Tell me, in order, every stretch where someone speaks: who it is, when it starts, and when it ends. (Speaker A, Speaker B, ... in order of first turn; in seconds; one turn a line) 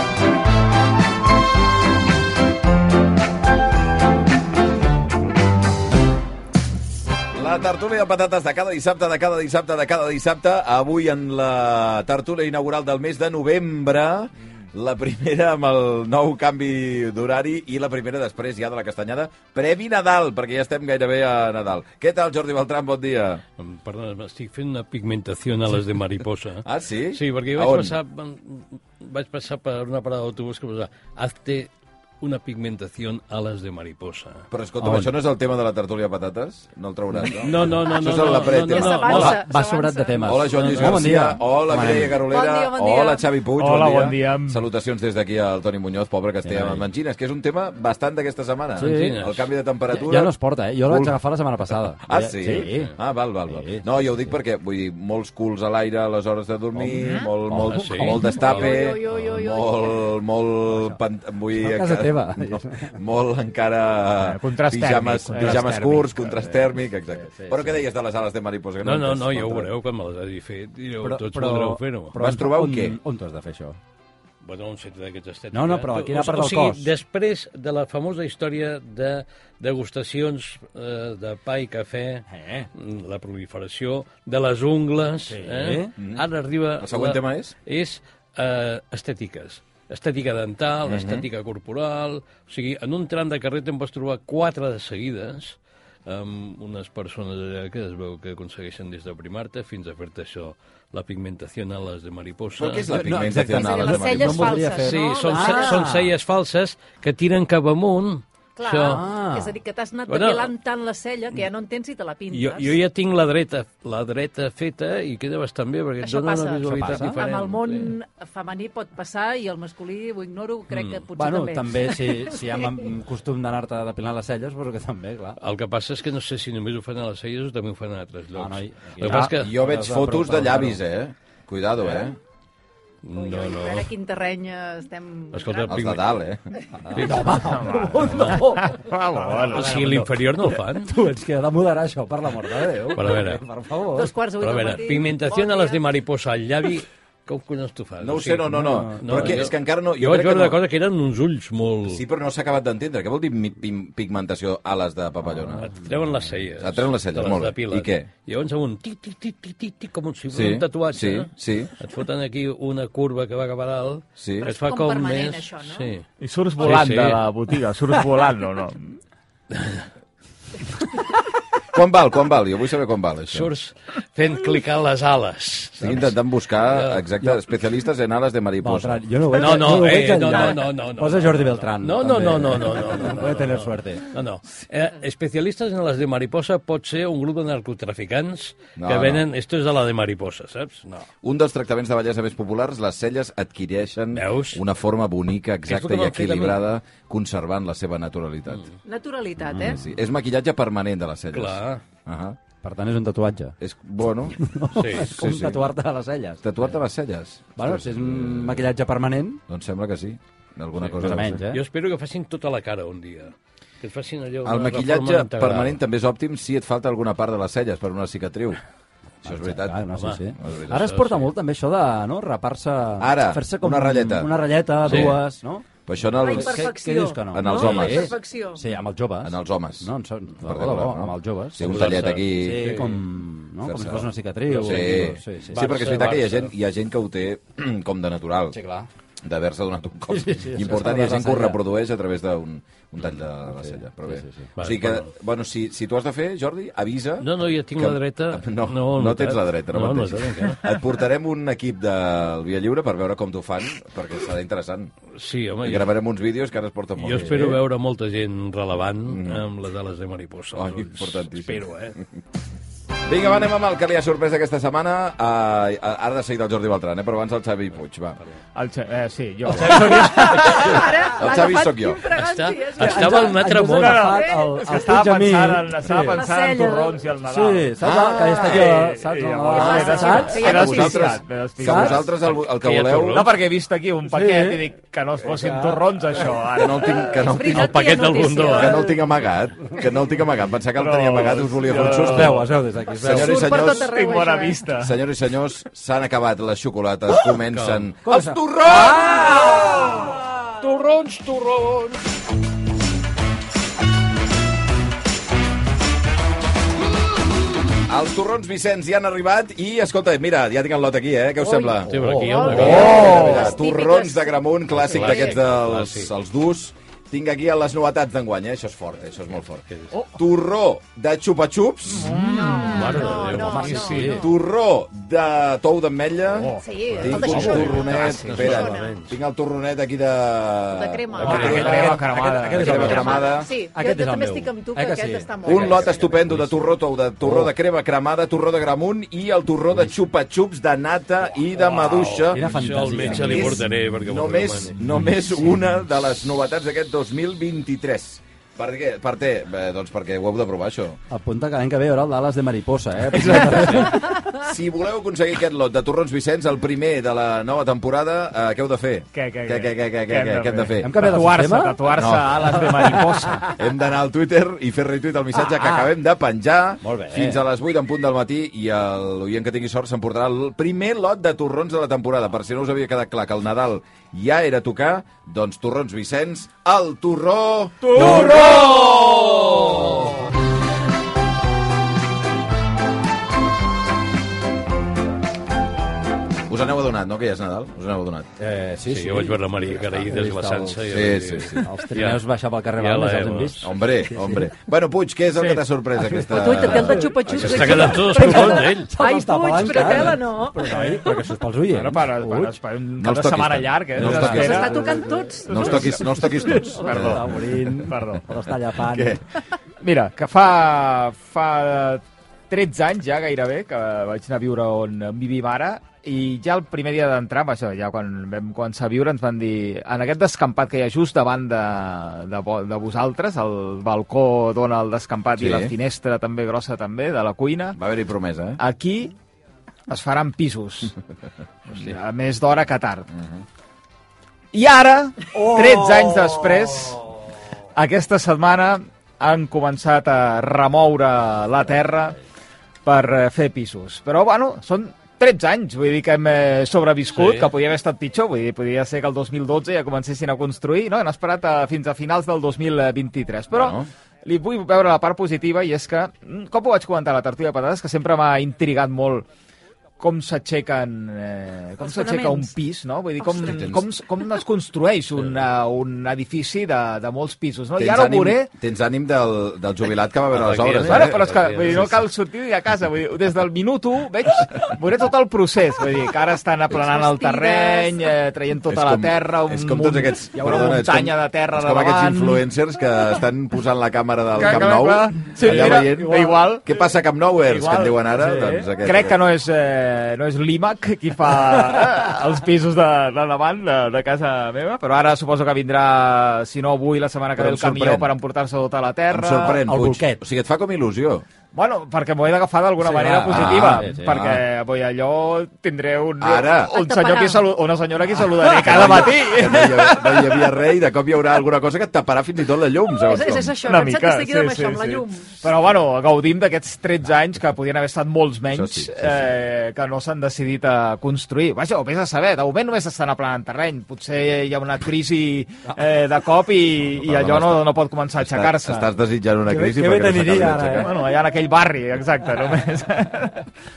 Speaker A: 7.3-23.4
Speaker B: 23.6-31.7
Speaker A: 26.6-28.0
Speaker B: 32.2-34.5
Speaker A: 34.5-39.4
Speaker C: 34.8-35.1
Speaker B: 37.3-39.4
Speaker D: 38.4-40.9
Speaker C: 39.1-42.2
Speaker A: 40.2-50.3
Speaker B: 40.8-41.1
Speaker D: 42.1-43.3
Speaker E: 43.6-44.6
Speaker C: 46.4-46.9
Speaker C: 48.8-49.2
Speaker B: 48.8-49.5
Speaker C: 49.9-53.0
Speaker A: 50.9-51.2
Speaker A: 52.0-69.7
Speaker C: 53.5-53.9
Speaker C: 56.8-58.4
Speaker E: 57.0-57.2
Speaker B: 57.7-58.5
Speaker D: 58.2-60.1
Speaker C: 60.7-61.0
Speaker C: 61.5-63.0
Speaker E: 64.2-66.4
Speaker C: 65.3-65.7
Speaker C: 66.4-67.8
Speaker B: 68.8-72.2
Speaker C: 71.0-73.8
Speaker A: 72.2-73.0
Speaker B: 74.4-103.0
Speaker C: 75.5-76.9
Speaker C: 82.3-82.7
Speaker C: 85.3-85.9
Speaker A: 86.0-86.2
Speaker A: 86.8-87.5
Speaker A: 90.9-91.3
Speaker A: 102.6-104.6
Speaker C: 102.9-106.1
Speaker D: 103.4-105.9
Speaker B: 104.6-109.0
Speaker D: 108.6-112.8
Speaker C: 108.9-109.6
Speaker B: 110.1-110.5
Speaker B: 112.3-117.9
Speaker D: 116.0-122.8
Speaker C: 116.7-117.2
Speaker B: 120.7-121.0
Speaker C: 121.2-125.4
Speaker B: 125.4-129.5
Speaker C: 128.3-130.8
Speaker A: 129.1-132.2
Speaker B: 133.0-133.9
Speaker D: 133.2-135.8
Speaker B: 135.3-136.1
Speaker A: 135.7-136.4
Speaker C: 136.8-144.1
Speaker B: 136.9-137.4
Speaker E: 137.5-139.7
Speaker B: 138.0-138.5
Speaker B: 139.4-140.9
Speaker B: 142.9-143.4
Speaker D: 143.9-145.8
Speaker B: 144.4-148.5
Speaker A: 148.0-150.6
Speaker C: 148.5-149.4
Speaker B: 149.0-152.0
Speaker A: 151.9-155.7
Speaker B: 155.6-166.0
Speaker A: 156.6-158.1
Speaker A: 160.3-161.7
Speaker A: 164.2-164.5
Speaker D: 164.4-165.9
Speaker E: 166.2-168.9
Speaker B: 166.6-167.2
Speaker B: 169.5-169.8
Speaker A: 171.7-173.5
Speaker B: 173.3-177.0
Speaker A: 175.8-179.0
Speaker C: 178.6-184.1
Speaker B: 179.3-191.1
Speaker A: 188.8-189.2
Speaker A: 191.2-198.6
Speaker B: 194.1-194.6
Speaker B: 195.7-196.6
Speaker D: 198.8-199.8
Speaker A: 199.5-202.4
Speaker B: 201.3-201.8
Speaker C: 202.6-203.6
Speaker A: 203.6-204.4
Speaker C: 204.4-206.6
Speaker B: 204.8-205.1
Speaker A: 204.9-205.7
Speaker A: 206.4-208.7
Speaker C: 207.6-209.4
Speaker A: 209.5-211.4
Speaker B: 210.8-215.8
Speaker C: 210.9-211.6
Speaker A: 214.4-218.6
Speaker A: 219.2-219.9
Speaker C: 219.2-235.7
Speaker B: 219.9-220.2
Speaker A: 220.4-220.9
Speaker B: 220.7-221.3
Speaker A: 223.0-224.3
Speaker A: 224.8-225.2
Speaker B: 224.8-225.2
Speaker A: 225.9-226.6
Speaker D: 226.2-228.6
Speaker A: 227.3-228.2
Speaker A: 229.2-229.9
Speaker A: 230.4-232.8
Speaker B: 231.6-233.0
Speaker A: 233.6-238.6
Speaker B: 234.5-236.5
Speaker C: 238.5-238.9
Speaker A: 239.2-254.9
Speaker C: 240.1-241.6
Speaker C: 243.5-244.5
Speaker B: 244.6-245.1
Speaker B: 247.2-250.6
Speaker B: 255.2-255.9
Speaker A: 255.6-257.6
Speaker B: 257.0-262.0
Speaker A: 259.1-259.4
Speaker A: 260.6-261.7
Speaker A: 263.1-268.2
Speaker E: 268.6-271.0
Speaker B: 269.5-270.4
Speaker C: 269.6-271.1
Speaker D: 270.5-273.4
Speaker A: 271.1-272.0
Speaker B: 272.1-274.1
Speaker C: 272.8-276.2
Speaker E: 273.4-277.7
Speaker D: 274.1-274.6
Speaker D: 276.0-277.0
Speaker C: 277.3-280.6
Speaker A: 277.8-278.8
Speaker E: 278.3-282.1
Speaker A: 279.5-283.3
Speaker D: 279.6-281.2
Speaker C: 281.6-282.0
Speaker B: 282.2-283.3
Speaker E: 283.1-287.3
Speaker C: 284.1-284.6
Speaker C: 285.2-285.8
Speaker A: 286.5-293.9
Speaker D: 287.1-288.9
Speaker B: 287.4-288.9
Speaker E: 290.8-292.4
Speaker C: 291.8-293.4
Speaker D: 293.1-294.7
Speaker E: 293.1-294.9
Speaker A: 294.8-299.8
Speaker B: 297.4-297.9
Speaker C: 298.0-300.2
Speaker B: 299.1-302.0
Speaker A: 307.9-311.9
Speaker D: 311.4-315.4
Speaker B: 311.9-313.4
Speaker C: 311.9-313.0
Speaker A: 312.5-322.2
Speaker E: 312.5-313.5
Speaker B: 314.8-316.1
Speaker E: 321.9-323.6
Speaker D: 322.3-324.3
Speaker B: 322.4-324.2
Speaker C: 323.5-324.3
Speaker A: 324.1-333.5
Speaker E: 326.3-326.6
Speaker D: 326.6-329.1
Speaker C: 327.1-327.8
Speaker B: 327.1-329.1
Speaker E: 327.9-328.5
Speaker D: 330.7-331.9
Speaker B: 331.1-331.7
Speaker C: 331.2-337.5
Speaker E: 331.2-333.2
Speaker D: 332.6-336.0
Speaker A: 335.4-351.0
Speaker B: 341.6-344.8
Speaker C: 342.3-343.6
Speaker C: 351.1-354.1
Speaker A: 353.1-361.2
Speaker E: 359.1-363.5
Speaker C: 360.8-361.8
Speaker A: 361.9-378.6
Speaker C: 365.5-365.9
Speaker C: 366.8-367.4
Speaker C: 377.8-380.1
Speaker A: 386.5-388.3
Speaker C: 388.4-390.9
Speaker B: 388.9-392.2
Speaker A: 390.9-391.7
Speaker C: 391.5-394.5
Speaker B: 392.8-393.7
Speaker A: 393.6-398.0
Speaker C: 396.0-402.6
Speaker D: 396.2-401.0
Speaker B: 397.4-398.9
Speaker E: 400.7-401.1
Speaker E: 401.7-407.3
Speaker A: 403.0-404.7
Speaker C: 404.0-409.2
Speaker D: 404.1-405.9
Speaker A: 405.4-407.8
Speaker E: 407.8-408.2
Speaker A: 408.8-409.2
Speaker E: 409.8-427.8
Speaker A: 425.4-425.7
Speaker A: 427.8-428.6
Speaker E: 428.6-429.1
Speaker E: 429.9-430.9
Speaker E: 431.7-433.1
Speaker A: 433.1-433.4
Speaker E: 434.5-437.0
Speaker C: 435.3-437.0
Speaker E: 437.8-442.2
Speaker E: 442.9-459.2
Speaker B: 447.1-447.5
Speaker A: 453.5-453.9
Speaker E: 460.0-468.5
Speaker D: 461.8-462.5
Speaker D: 463.2-463.6
Speaker A: 463.4-463.9
Speaker A: 467.8-471.9
Speaker B: 470.3-472.0
Speaker E: 470.9-482.4
Speaker D: 476.7-478.1
Speaker A: 478.7-489.2
Speaker E: 484.4-486.8
Speaker C: 485.4-486.4
Speaker E: 487.4-499.6
Speaker C: 488.2-488.7
Speaker A: 497.4-498.1
Speaker A: 499.1-501.2
Speaker C: 499.6-500.2
Speaker E: 501.5-510.5
Speaker C: 502.8-504.2
Speaker A: 503.3-504.4
Speaker A: 506.2-506.7
Speaker D: 506.6-507.5
Speaker A: 508.5-513.5
Speaker D: 513.0-515.4
Speaker E: 513.6-528.9
Speaker A: 518.5-519.2
Speaker A: 527.0-530.9
Speaker C: 529.5-530.9
Speaker E: 530.7-533.5